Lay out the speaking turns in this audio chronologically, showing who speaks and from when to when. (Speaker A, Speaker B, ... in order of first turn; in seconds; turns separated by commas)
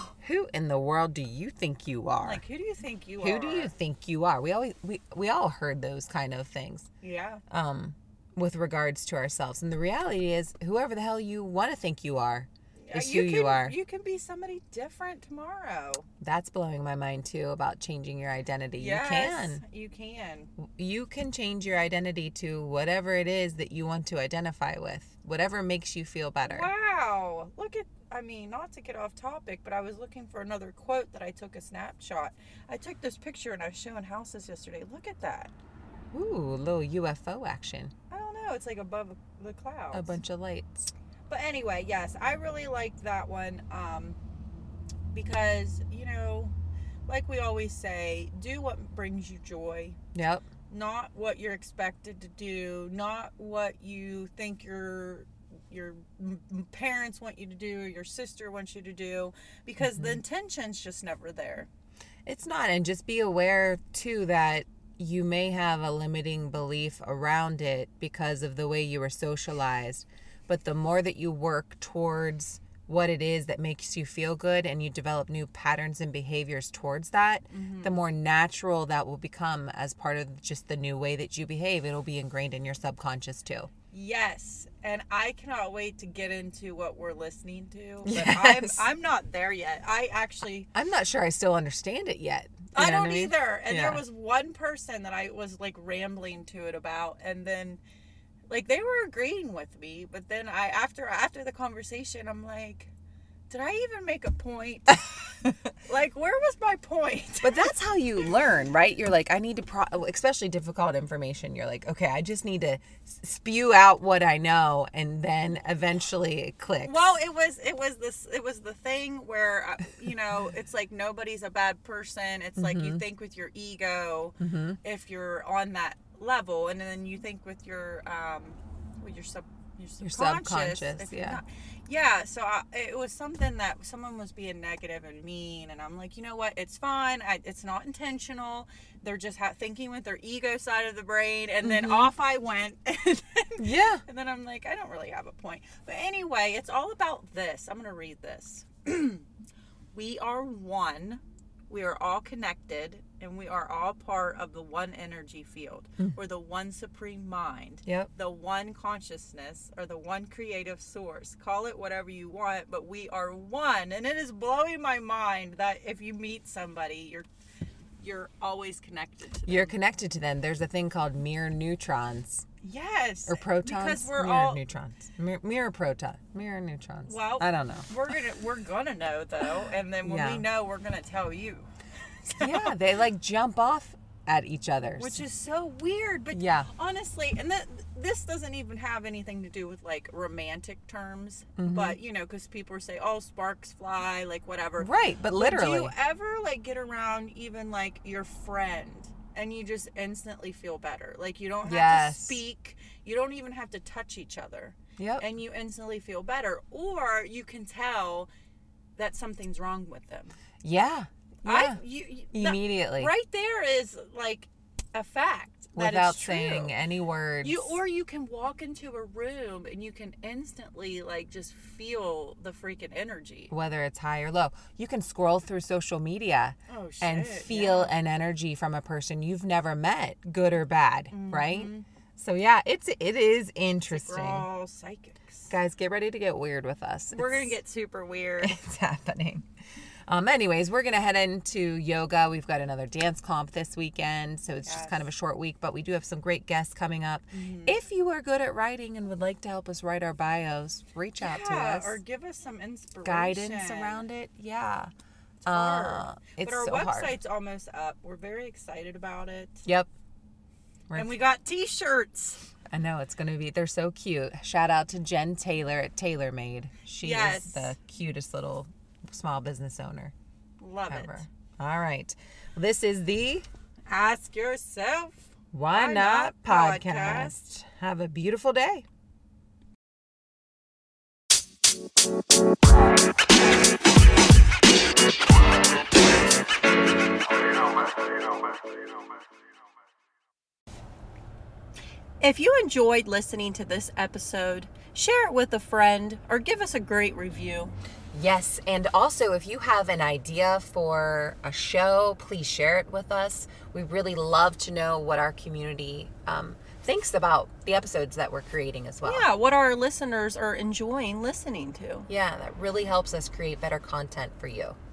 Speaker A: 0.2-2.4, Speaker B: 2.2-3.7, Speaker A: 3.2-6.9, Speaker B: 7.0-7.4, Speaker A: 7.5-13.7, Speaker B: 12.8-16.1, Speaker A: 16.2-19.6, Speaker B: 18.8-20.5, Speaker A: 20.6-26.7, Speaker B: 26.4-35.5, Speaker A: 36.1-37.9, Speaker B: 38.1-40.1, Speaker A: 39.9-40.9, Speaker B: 41.3-44.2, Speaker B: 45.1-46.5, Speaker B: 47.1-50.0, Speaker A: 50.1-50.4, Speaker B: 50.7-61.7, Speaker A: 59.9-60.2, Speaker A: 62.2-83.7, Speaker B: 77.5-78.0, Speaker B: 83.9-90.7, Speaker A: 88.0-88.8, Speaker A: 90.7-94.0, Speaker B: 92.7-97.8, Speaker B: 98.5-102.9, Speaker B: 103.5-107.7, Speaker A: 107.4-116.9, Speaker B: 116.8-149.2, Speaker A: 122.6-123.0, Speaker A: 124.4-124.8, Speaker A: 130.0-131.4, Speaker A: 141.6-142.1, Speaker A: 143.6-144.0, Speaker B: 149.9-167.3, Speaker B: 168.0-169.7, Speaker A: 169.4-172.4, Speaker B: 172.6-174.6, Speaker A: 173.3-177.9, Speaker B: 177.1-181.7, Speaker A: 180.0-180.4, Speaker B: 182.2-182.8, Speaker A: 182.4-185.2, Speaker B: 185.0-208.3, Speaker A: 186.3-186.7, Speaker A: 191.6-192.0, Speaker A: 194.8-195.9, Speaker A: 201.6-202.4, Speaker A: 205.0-205.2, Speaker B: 209.0-210.3, Speaker A: 210.6-211.8, Speaker B: 211.4-216.8, Speaker A: 212.3-213.1, Speaker A: 215.8-217.8, Speaker B: 217.4-223.5, Speaker A: 223.5-234.4, Speaker B: 226.7-227.9, Speaker B: 231.1-231.8, Speaker B: 233.9-235.5, Speaker A: 235.5-237.6, Speaker B: 237.1-238.6, Speaker A: 238.4-239.5, Speaker A: 240.1-252.0, Speaker B: 244.6-245.0, Speaker B: 247.3-247.8, Speaker B: 251.2-254.0, Speaker A: 253.0-254.9, Speaker B: 255.4-259.6, Speaker A: 255.4-257.2, Speaker B: 260.9-262.4, Speaker A: 262.7-270.1, Speaker B: 267.0-267.7, Speaker B: 270.6-271.3, Speaker A: 270.9-273.5, Speaker B: 273.9-277.3, Speaker A: 275.5-278.9, Speaker B: 292.2-297.7, Speaker A: 298.1-309.2, Speaker B: 309.0-312.1, Speaker A: 312.1-314.8